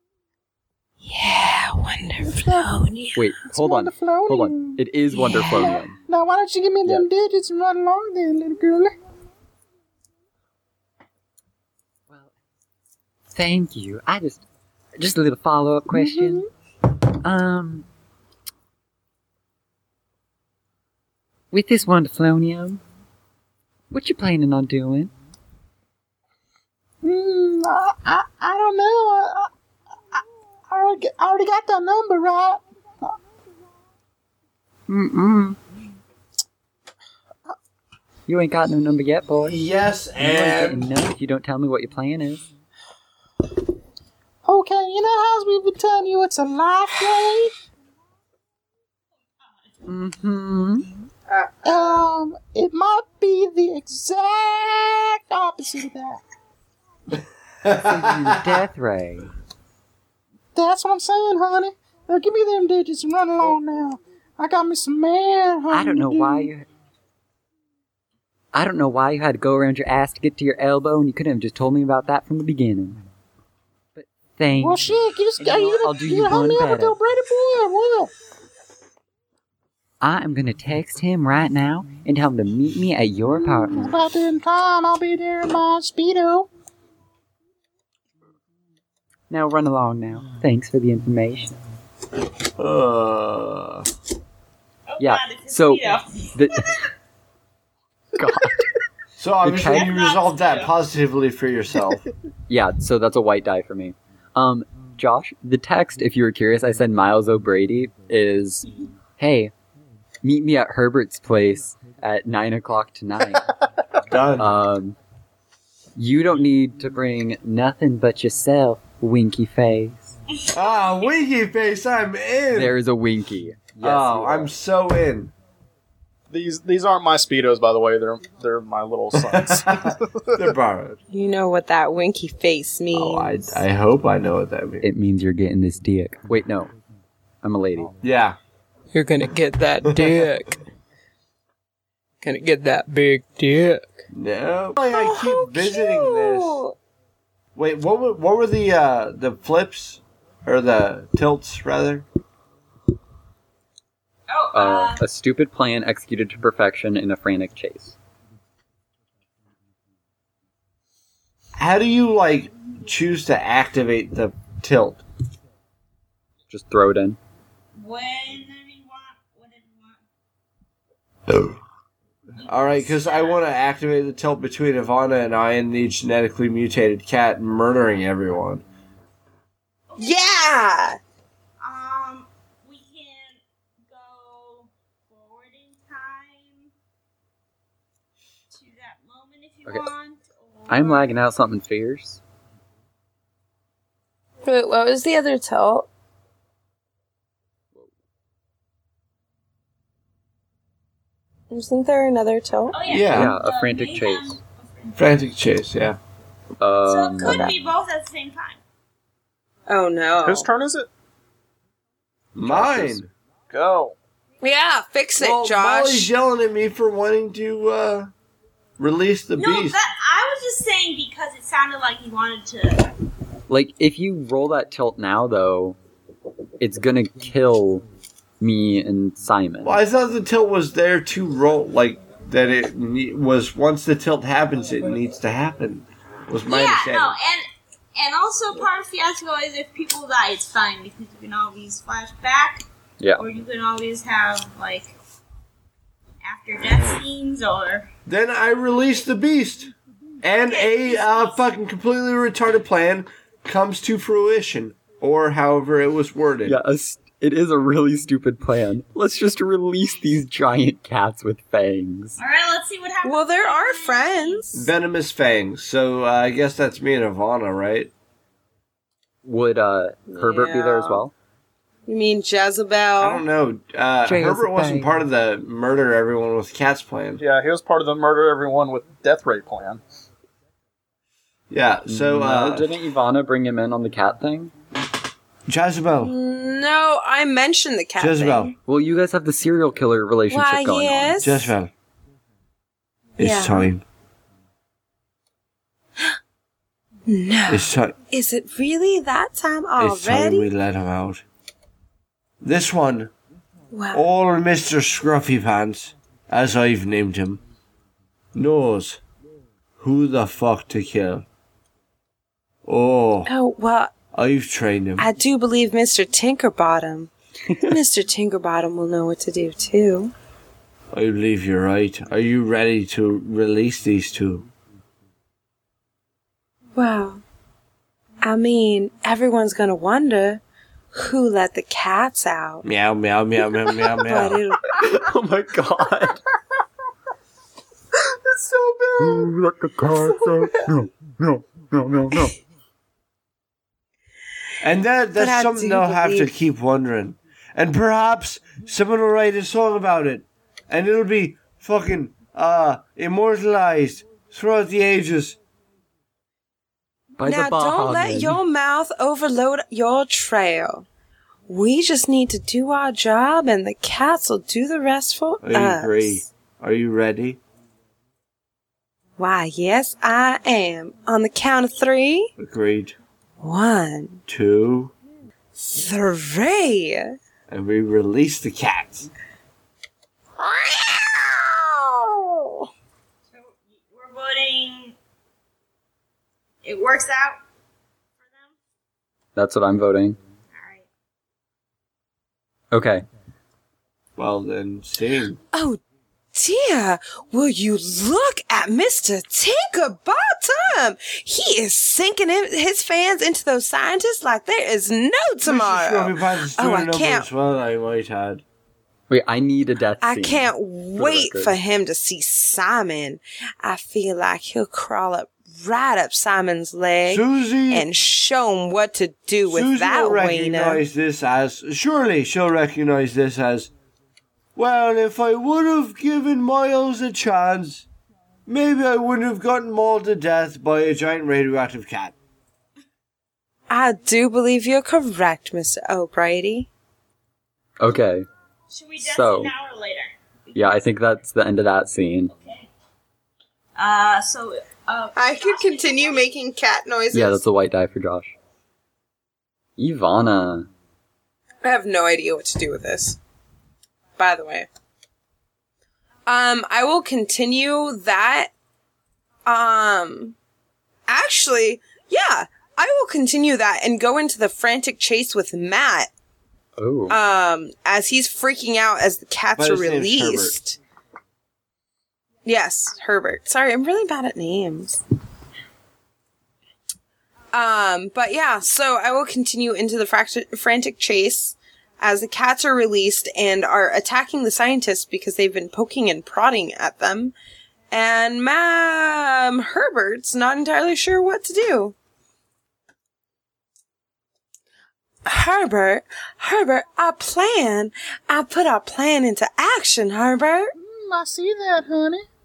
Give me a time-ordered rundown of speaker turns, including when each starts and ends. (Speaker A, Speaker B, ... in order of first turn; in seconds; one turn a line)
Speaker A: 1.0-3.3
Speaker B: 2.3-2.8
Speaker C: 3.1-6.0
Speaker B: 3.5-8.9
Speaker A: 5.2-5.7
Speaker C: 13.3-14.4
Speaker C: 15.0-16.4
Speaker B: 15.9-16.5
Speaker C: 17.2-17.9
Speaker C: 21.5-22.8
Speaker C: 23.9-25.1
Speaker B: 27.0-29.5
Speaker B: 30.1-33.2
Speaker C: 34.9-35.6
Speaker C: 38.3-39.6
Speaker D: 39.5-40.9
Speaker C: 40.2-42.5
Speaker B: 44.5-47.5
Speaker C: 49.9-50.9
Speaker A: 51.3-52.1
Speaker B: 51.6-56.2
Speaker D: 57.6-58.6
Speaker C: 57.8-59.3
Speaker B: 60.5-66.5
Speaker C: 65.7-66.7
Speaker C: 68.5-73.0
Speaker C: 74.0-77.0
Speaker B: 74.6-78.1
Speaker C: 80.0-83.9
Speaker B: 83.4-86.5
Speaker C: 89.3-91.6
Speaker D: 92.6-93.9
Speaker E: 94.9-96.5
Speaker C: 95.0-96.7
Speaker C: 98.2-98.7
Speaker D: 99.2-102.0
Speaker C: 99.4-99.9
Speaker E: 99.7-100.7
Speaker C: 102.5-109.5
Speaker C: 110.2-113.5
Speaker D: 114.1-114.5
Speaker C: 114.4-115.0
Speaker C: 116.0-120.1
Speaker E: 120.5-121.1
Speaker D: 120.5-122.8
Speaker C: 122.5-124.5
Speaker D: 123.8-125.3
Speaker F: 126.3-130.1
Speaker D: 129.2-131.0
Speaker A: 131.1-133.6
Speaker D: 132.9-134.9
Speaker C: 134.8-136.7
Speaker C: 137.4-137.9
Speaker D: 138.0-138.4
Speaker G: 138.9-140.6
Speaker D: 139.9-140.2
Speaker G: 142.2-144.0
Speaker D: 144.1-146.6
Speaker A: 144.9-146.8
Speaker D: 147.6-152.1
Speaker E: 154.3-155.0
Speaker C: 154.5-158.0
Speaker D: 161.6-165.0
Speaker C: 166.5-167.2
Speaker E: 167.8-170.0
Speaker D: 171.3-171.6
Speaker E: 172.4-173.4
Speaker D: 172.4-178.7
Speaker E: 179.9-180.5
Speaker A: 180.0-181.0
Speaker E: 181.6-186.7
Speaker E: 188.5-191.2
Speaker C: 190.7-192.2
Speaker A: 194.4-195.9
Speaker A: 201.5-202.8
Speaker E: 202.7-205.2
Speaker D: 202.9-203.4
Speaker C: 203.1-204.4
Speaker D: 205.0-206.0
Speaker C: 206.6-207.6
Speaker E: 206.8-208.6
Speaker A: 209.7-210.5
Speaker F: 210.2-210.9
Speaker D: 212.3-213.1
Speaker C: 212.4-213.0
Speaker F: 213.5-214.0
Speaker A: 214.4-216.1
Speaker D: 215.2-218.1
Speaker D: 218.8-219.8
Speaker E: 219.4-222.9
Speaker C: 223.5-225.8
Speaker C: 226.6-227.8
Speaker C: 228.4-229.8
Speaker D: 229.6-237.2
Speaker E: 236.5-242.6
Speaker E: 243.2-244.9
Speaker E: 246.2-247.9
Speaker D: 248.1-256.6
Speaker E: 250.5-251.4
Speaker C: 256.5-262.2
Speaker E: 262.2-264.5
Speaker A: 263.0-264.7
Speaker D: 264.5-267.9
Speaker C: 269.2-271.1
Speaker A: 270.1-271.0
Speaker A: 271.9-273.2
Speaker D: 273.0-277.2
Speaker C: 274.1-274.9
Speaker F: 277.2-279.8
Speaker D: 281.5-282.7
Speaker C: 281.9-284.5
Speaker D: 285.5-286.1
Speaker A: 286.0-288.6
Speaker D: 288.0-288.6
Speaker C: 288.7-291.2
Speaker A: 290.3-291.5
Speaker D: 291.2-291.7
Speaker D: 293.2-293.8
Speaker A: 293.2-293.7
Speaker A: 297.1-300.5
Speaker D: 297.5-298.0
Speaker D: 299.8-301.2
Speaker D: 302.4-303.1
Speaker A: 303.7-304.0
Speaker D: 303.9-307.4
Speaker D: 308.3-309.0
Speaker D: 309.8-311.3
Speaker D: 312.6-313.3
Speaker A: 313.3-313.9
Speaker D: 314.1-315.1
Speaker A: 315.0-320.1
Speaker D: 320.9-324.5
Speaker A: 326.8-327.2
Speaker A: 328.2-330.4
Speaker A: 330.9-332.7
Speaker D: 332.6-334.4
Speaker A: 333.7-334.9
Speaker C: 334.7-336.2
Speaker C: 339.0-342.4
Speaker A: 340.1-340.5
Speaker D: 344.6-355.4
Speaker A: 345.2-346.3
Speaker C: 357.2-358.4
Speaker A: 357.2-360.9
Speaker A: 361.5-366.2
Speaker D: 365.4-367.4
Speaker A: 369.2-372.3
Speaker D: 372.4-373.0
Speaker A: 373.4-374.2
Speaker D: 374.3-374.9
Speaker A: 375.6-377.1
Speaker D: 377.5-379.1
Speaker A: 380.4-382.6
Speaker E: 383.3-385.0
Speaker E: 386.6-387.4
Speaker E: 388.2-388.5
Speaker C: 389.4-390.2
Speaker E: 390.5-390.9
Speaker C: 392.7-393.1
Speaker D: 394.2-395.4
Speaker A: 395.5-395.8
Speaker A: 396.3-407.3
Speaker D: 405.4-408.4
Speaker C: 409.1-411.6
Speaker A: 410.0-420.8
Speaker D: 417.1-417.9
Speaker D: 419.4-423.7
Speaker D: 424.6-427.9
Speaker D: 428.5-432.1
Speaker A: 433.7-436.7
Speaker C: 437.8-438.3
Speaker E: 438.7-440.8
Speaker C: 439.0-439.5
Speaker C: 440.5-442.3
Speaker E: 442.3-442.7
Speaker E: 443.8-446.3
Speaker A: 445.2-447.4
Speaker C: 447.1-448.3
Speaker C: 449.8-450.7
Speaker A: 451.6-453.2
Speaker A: 454.2-454.7
Speaker A: 456.3-458.5
Speaker A: 459.5-460.4
Speaker A: 461.1-466.1
Speaker C: 466.8-467.2
Speaker A: 467.1-470.8
Speaker D: 469.6-470.6
Speaker A: 472.4-475.0
Speaker A: 477.5-487.4
Speaker A: 487.9-491.9
Speaker A: 495.3-500.7
Speaker B: 500.8-502.3